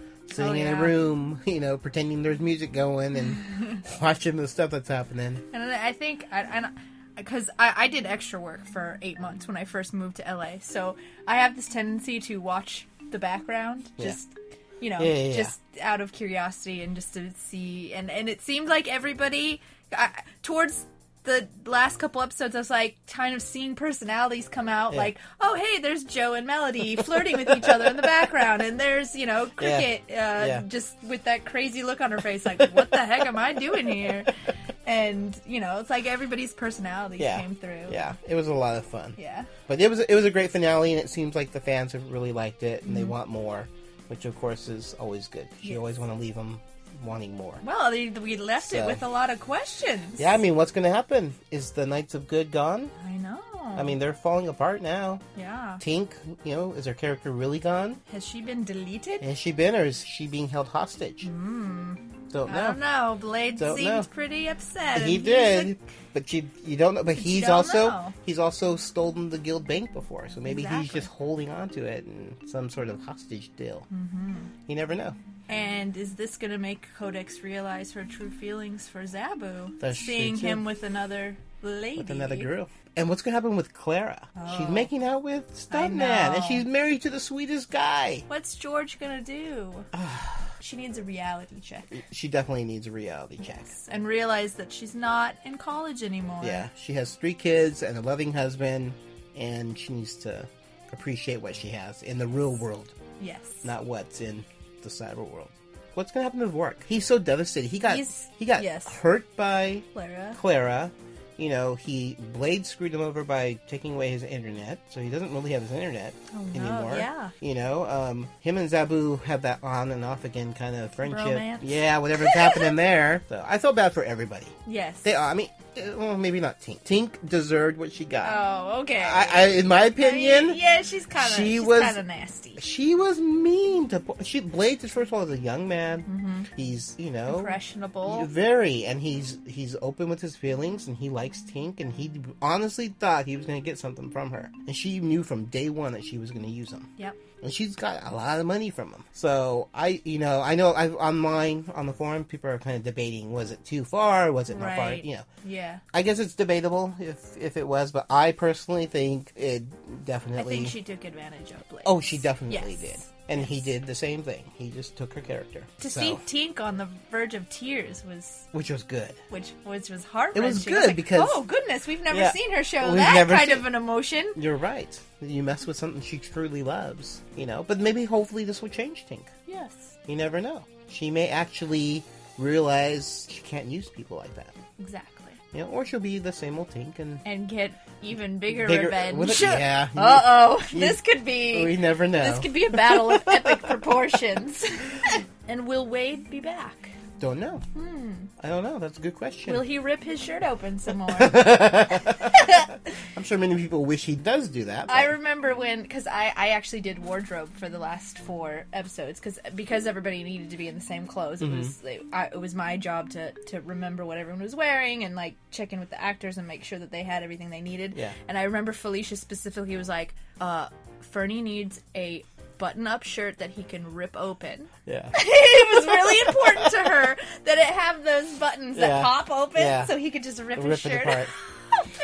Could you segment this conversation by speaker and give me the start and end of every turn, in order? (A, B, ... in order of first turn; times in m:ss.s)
0:00.3-0:05.4 A
0:00.4-0:01.0 B
0:03.3-0:03.8 B
0:05.5-0:34.3 B
0:15.0-0:15.5 A
0:27.2-0:28.0 A
0:29.6-0:30.6 A
0:32.6-0:34.2 A
0:34.8-0:38.0 B
0:37.2-0:39.2 A
0:39.2-0:39.5 B
0:39.7-0:47.6 A
0:42.8-0:43.1 B
0:45.6-0:45.9 B
0:47.6-0:50.3 B
0:48.6-0:49.0 A
0:50.2-0:52.9 A
0:53.0-0:54.0 B
0:53.8-0:55.2 A
0:55.3-0:55.8 B
0:55.8-0:58.0 A
0:58.1-0:59.2 B
0:59.2-1:01.3 A
1:01.2-1:05.7 B
1:02.3-1:02.8 A
1:03.6-1:04.1 A
1:04.9-1:13.9 A
1:07.1-1:08.1 B
1:10.4-1:11.1 B
1:13.9-1:14.5 B
1:14.7-1:15.1 A
1:15.5-1:22.5 B
1:19.8-1:20.6 A
1:22.0-1:28.2 A
1:24.4-1:24.9 B
1:25.7-1:26.6 B
1:28.3-1:29.9 B
1:29.9-1:30.5 A
1:30.6-1:32.0 B
1:31.9-1:33.7 A
1:33.4-1:36.7 B
1:36.4-1:42.9 A
1:43.2-1:43.7 B
1:43.6-2:08.4 A
1:47.9-1:49.0 B
1:49.9-1:50.4 B
1:56.3-1:57.3 B
2:01.0-2:02.7 B
2:04.6-2:05.1 B
2:08.2-2:12.6 B
2:09.0-2:10.6 A
2:11.1-2:12.0 A
2:12.6-2:26.9 A
2:16.0-2:16.5 B
2:17.3-2:18.3 B
2:27.4-2:35.2 A
2:34.5-2:35.8 B
2:35.9-2:40.7 A
2:40.4-2:43.7 B
2:41.8-2:46.2 A
2:45.8-2:48.5 B
2:48.5-2:49.2 A
2:49.3-2:54.4 B
2:50.3-2:51.4 A
2:52.1-2:53.7 A
2:54.3-2:59.3 A
2:59.4-2:59.9 B
3:00.1-3:04.5 A
3:04.8-3:05.4 B
3:05.5-3:07.2 A
3:07.2-3:17.0 B
3:08.5-3:14.0 A
3:17.2-3:17.6 A
3:17.7-3:18.3 B
3:18.4-3:19.6 A
3:19.5-3:22.7 B
3:21.0-3:22.4 A
3:23.1-3:25.2 A
3:24.9-3:51.9 B
3:31.4-3:31.7 A
3:44.9-3:45.2 A
3:45.8-3:46.8 A
3:48.7-3:49.9 A
3:50.5-3:51.3 A